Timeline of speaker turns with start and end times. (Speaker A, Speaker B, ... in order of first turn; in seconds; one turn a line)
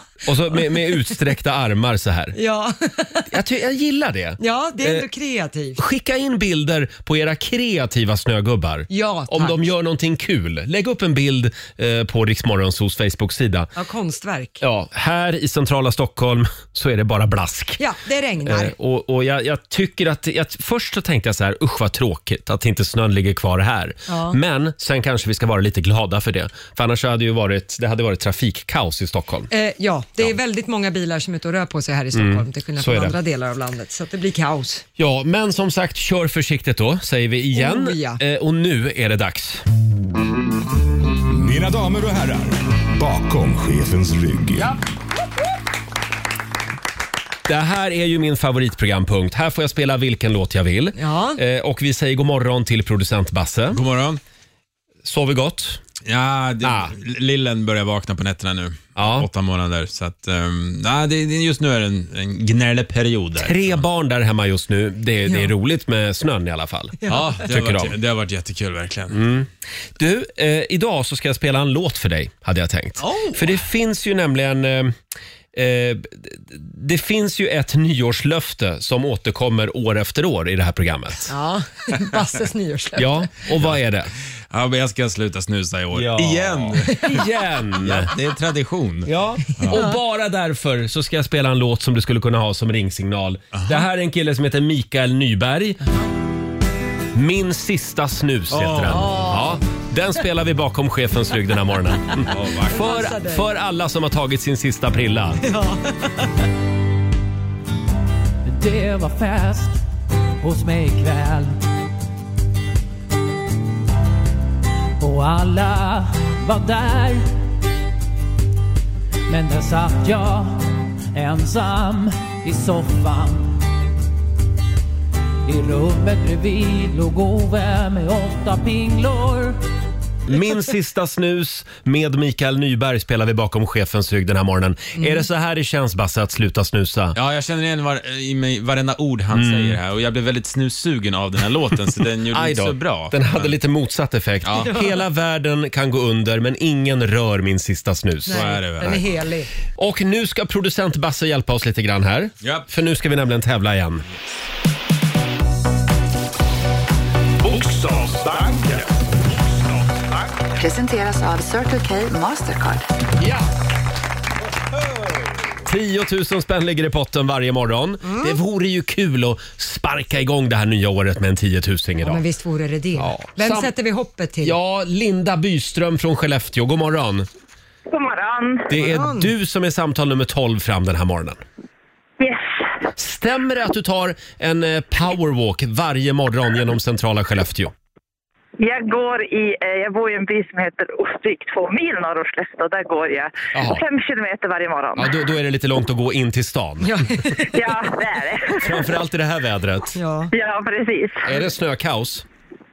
Speaker A: 0.2-2.4
Speaker B: 2.4-3.2
Speaker A: 3.3-5.1
Speaker B: 4.4-5.8
Speaker A: 5.8-13.7
Speaker B: 8.9-9.6
Speaker B: 13.8-14.6
Speaker A: 14.6-17.8
Speaker B: 17.8-18.8
Speaker A: 18.4-29.5
Speaker B: 24.1-24.4
Speaker B: 29.5-34.9
Speaker A: 32.1-33.2
Speaker A: 35.0-39.6
Speaker B: 37.5-38.2
Speaker C: 41.3-44.8
Speaker A: 47.5-53.8
Speaker B: 51.0-51.4
Speaker D: 53.7-54.2
Speaker A: 55.0-55.8
Speaker D: 56.0-63.8
Speaker A: 56.6-56.9
Speaker A: 59.0-59.3
Speaker A: 63.4-68.0
Speaker B: 65.3-65.5
Speaker B: 67.0-67.3
Speaker D: 67.1-69.2
Speaker A: 69.1-74.9
Speaker D: 73.0-73.6
Speaker A: 75.5-81.3
Speaker B: 81.3-83.5
Speaker A: 83.0-84.1
Speaker D: 84.5-87.0
Speaker A: 86.0-88.1
Speaker B: 86.9-87.2
Speaker D: 87.8-89.8
Speaker A: 89.1-95.8
Speaker B: 89.7-90.0
Speaker D: 93.5-93.8
Speaker A: 97.1-105.4
Speaker D: 98.5-99.2
Speaker B: 98.9-99.6
Speaker D: 102.3-102.8
Speaker B: 102.7-103.5
Speaker B: 105.4-106.2
Speaker E: 108.5-109.8
Speaker E: 110.4-111.6
Speaker E: 115.0-117.3
Speaker E: 119.3-123.6
Speaker E: 125.5-129.6
Speaker A: 130.3-137.2
Speaker B: 135.0-135.2
Speaker D: 137.2-143.5
Speaker A: 139.3-139.8
Speaker A: 142.3-148.6
Speaker D: 144.5-144.8
Speaker B: 144.7-145.0
Speaker D: 148.3-149.2
Speaker B: 148.3-149.5
Speaker A: 149.8-154.1
Speaker D: 152.4-152.7
Speaker C: 157.4-160.2
Speaker F: 160.6-162.9
Speaker A: 163.2-163.5
Speaker A: 165.7-172.2
Speaker B: 172.0-174.6
Speaker A: 173.0-173.7
Speaker A: 174.4-177.3
Speaker G: 177.9-178.7
Speaker A: 178.7-181.4
Speaker B: 178.7-179.3
Speaker G: 182.2-182.6
Speaker A: 183.0-187.7
Speaker G: 188.6-195.1
Speaker A: 193.5-193.8
Speaker A: 195.0-197.5
Speaker B: 196.8-197.6
Speaker G: 197.5-198.8
Speaker A: 198.6-200.0
Speaker B: 199.9-200.3
Speaker G: 200.3-201.4
Speaker A: 201.2-202.3